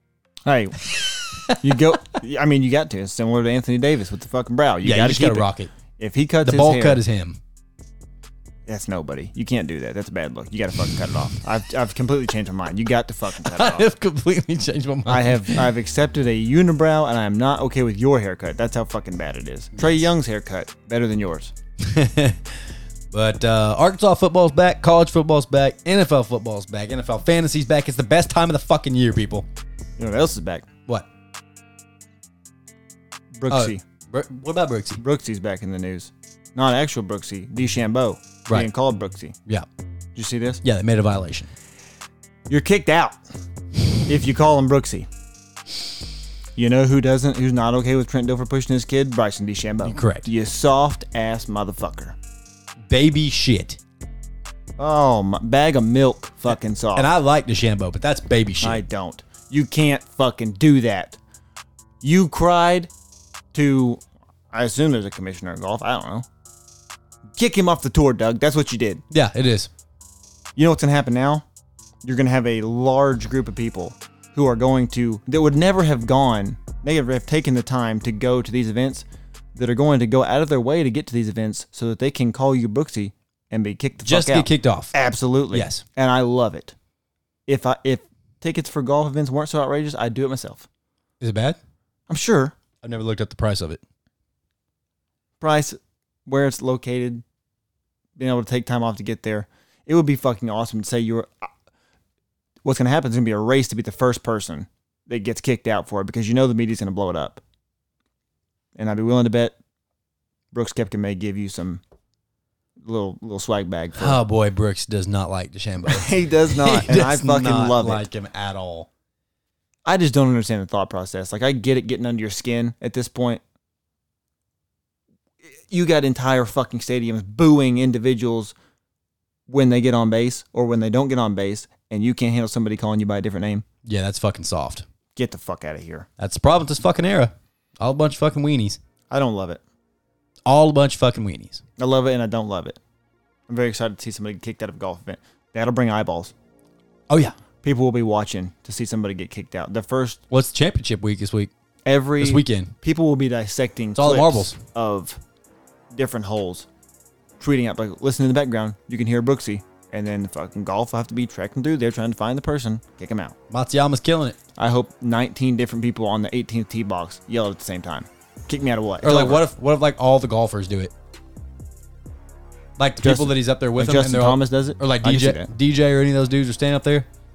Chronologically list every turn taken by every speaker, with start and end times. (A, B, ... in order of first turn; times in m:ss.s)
0:00.5-0:07.0 A
0:01.0-0:01.6 B
0:04.8-0:05.7 B
0:06.4-0:07.4 B
0:08.7-0:13.9 A
0:13.4-0:15.7 B
0:15.1-0:21.5 A
0:19.8-0:20.1 B
0:21.8-0:29.5 B
0:30.0-0:30.7 A
0:33.4-0:33.8 A
0:33.5-0:35.0 B
0:35.0-0:39.4 A
0:40.2-0:40.6 A
0:40.6-0:41.5 B
0:42.5-0:43.2 A
0:44.1-0:45.1 A
0:46.6-0:52.2 A
0:49.8-0:50.3 B
0:52.9-0:53.8 B
0:54.8-0:57.1 A
0:57.0-0:58.8 B
0:58.6-1:01.2 A
1:02.0-1:02.9 A
1:03.5-1:06.3 A
1:07.4-1:09.0 A
1:09.1-1:09.7 B
1:10.6-1:11.4 A
1:12.0-1:26.8 A
1:24.0-1:24.9 B
1:25.5-1:25.8 B
1:27.5-1:30.7 A
1:31.2-1:31.6 B
1:32.1-1:32.6 A
1:32.8-1:33.8 B
1:35.4-1:37.2 A
1:38.2-1:41.5 A
1:42.6-1:47.4 A
1:48.8-1:49.6 A
1:50.5-1:51.8 A
1:52.8-1:54.2 A
1:54.0-1:58.9 B
1:55.9-1:58.1 A
1:59.9-2:03.4 A
2:05.7-2:08.5 A
2:09.5-2:13.6 A
2:13.8-2:14.8 B
2:15.2-2:16.1 A
2:16.2-2:18.8 B
2:19.1-2:19.6 A
2:20.5-2:21.6 B
2:21.8-2:22.8 A
2:23.5-2:26.3 A
2:27.1-2:27.4 B
2:27.6-2:30.2 A
2:30.3-2:31.5 B
2:31.8-2:35.2 A
2:32.2-2:32.8 B
2:34.0-2:34.6 B
2:35.9-2:36.7 A
2:37.4-2:43.4 A
2:43.5-2:44.4 B
2:44.6-2:49.4 A
2:49.0-2:50.9 B
2:52.8-2:57.1 B
2:53.0-2:55.5 A